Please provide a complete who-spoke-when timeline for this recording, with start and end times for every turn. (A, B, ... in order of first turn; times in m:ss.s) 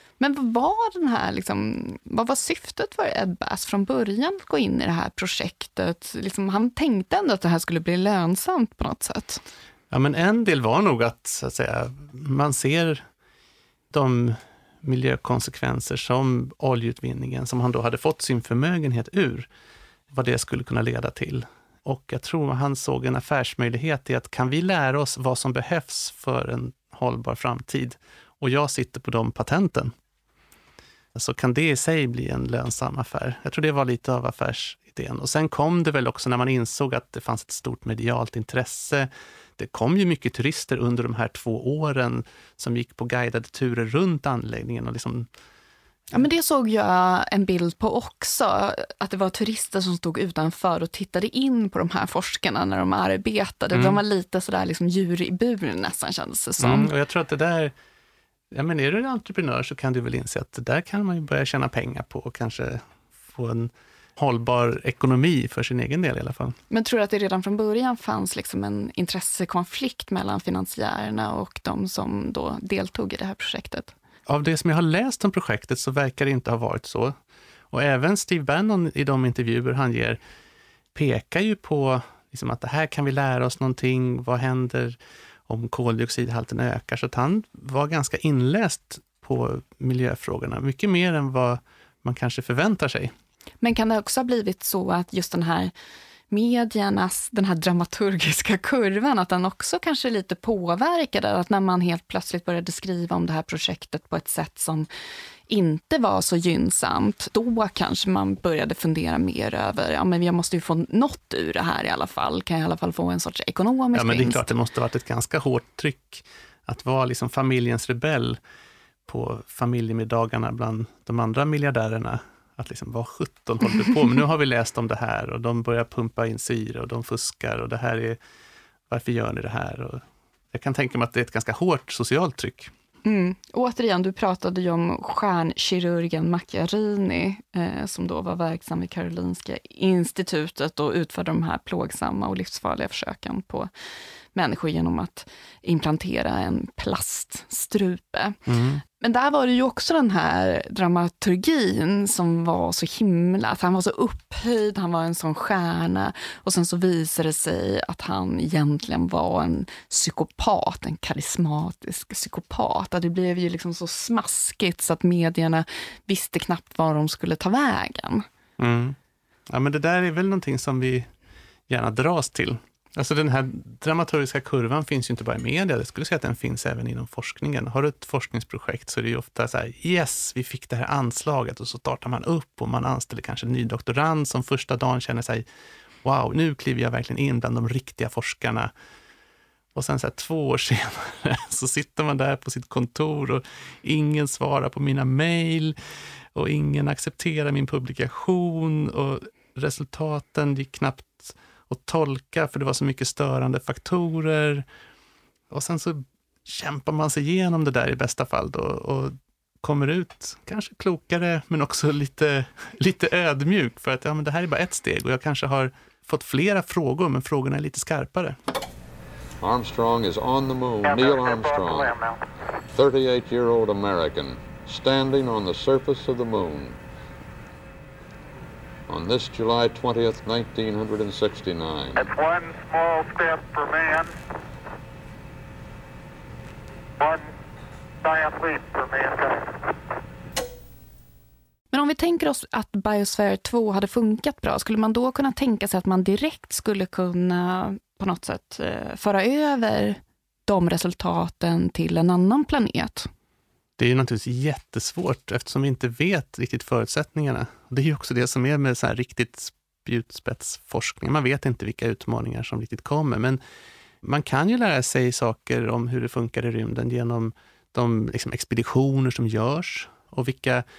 0:00.2-0:09.4 A
0:09.9-0:13.0 B
0:13.9-0:19.5 B
0:20.1-0:29.9 B
0:31.1-0:45.3 B
0:46.1-0:56.9 A
0:53.7-0:54.0 B
0:56.6-0:57.7 B
0:58.5-1:06.6 B
1:06.7-1:13.9 A
1:14.3-1:17.1 B
1:17.7-1:20.2 B
1:20.9-1:25.0 B
1:25.5-1:33.1 B
1:33.6-1:35.7 A
1:36.3-1:44.9 A
1:45.5-1:54.4 A
1:53.9-1:58.4 B
1:59.1-2:08.2 B
2:08.9-2:12.7 B
2:13.0-2:23.7 A
2:24.3-2:48.2 A
2:28.5-2:28.8 B
2:48.6-2:49.0 B
2:49.5-2:51.1 B
2:51.7-3:05.4 B
3:06.0-3:08.7 B
3:09.7-3:15.7 B
3:16.3-3:24.6 B
3:25.5-3:38.4 B
3:39.4-3:42.0 C
3:42.7-3:46.8 C
3:48.9-3:52.1 C
3:52.0-3:54.1 D
3:57.0-3:57.2 D
3:58.0-3:59.6 D
4:01.7-4:13.1 A
4:13.8-4:23.4 B
4:24.0-4:30.6 B